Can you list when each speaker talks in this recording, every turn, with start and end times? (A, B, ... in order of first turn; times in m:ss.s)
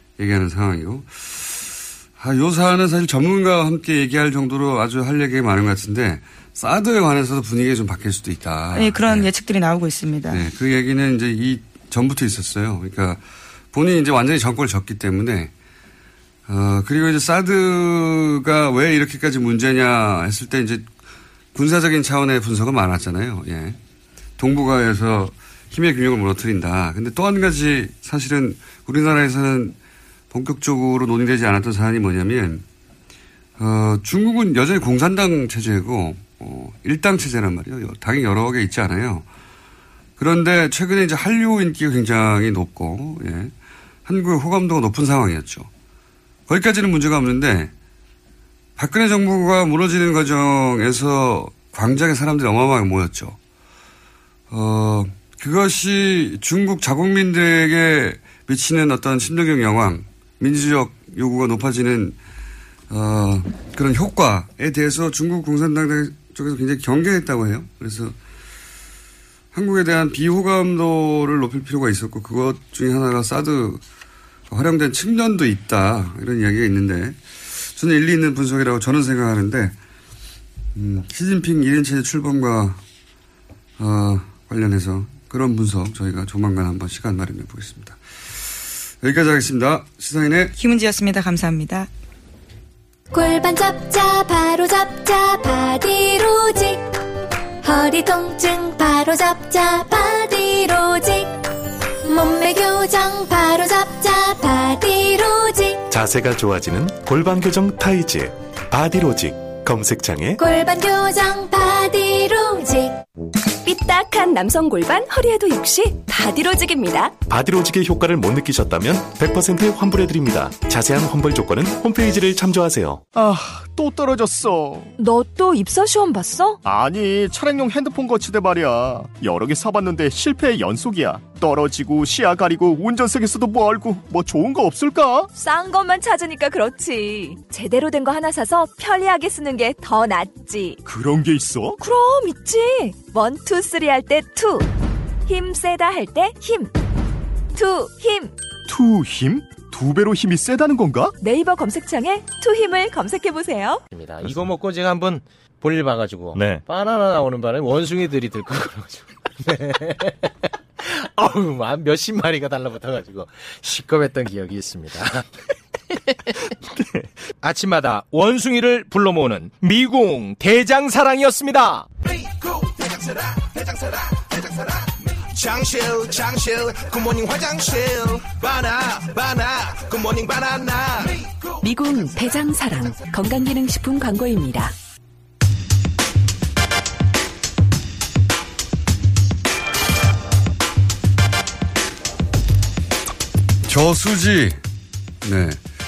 0:00.2-0:09.3 A
0:08.7-0:10.4 B
0:10.3-0:13.2 A
0:13.7-0:15.5 A
0:16.5-0:20.9 A
0:21.5-0:23.8 A
0:24.4-0:29.8 A
0:30.3-0:32.6 A
0:33.6-0:39.3 A
0:40.2-0:43.5 A
0:44.0-0:45.7 A
0:46.5-0:47.7 A
0:48.8-0:53.4 A
0:54.5-1:02.2 A
1:02.9-1:08.2 A
1:09.5-1:13.8 A
1:14.5-1:19.8 A
1:20.7-1:22.8 A
1:23.8-1:28.0 A
1:29.0-1:30.5 A
1:30.6-1:31.9 B
1:33.1-1:37.1 C
1:37.6-1:41.5 C
1:42.0-1:45.8 C
1:45.9-1:50.4 D
1:50.4-1:53.0 C
1:53.6-1:57.1 E
1:57.3-2:03.0 D
2:03.1-2:04.9 F
2:05.0-2:06.6 E
2:06.6-2:15.3 F
2:15.3-2:20.8 E
2:20.8-2:21.8 F
2:21.8-2:24.7 E
2:25.3-2:26.7 E
2:27.6-2:28.3 E
2:28.7-2:31.1 F
2:31.2-2:33.8 E
2:33.9-2:40.1 G
2:36.4-2:36.6 D
2:40.8-2:45.2 G
2:47.4-2:51.9 G
2:55.5-2:59.3 H
3:00.0-3:00.7 H
3:01.6-3:04.7 E
3:13.6-3:14.6 A
3:15.2-3:15.6 A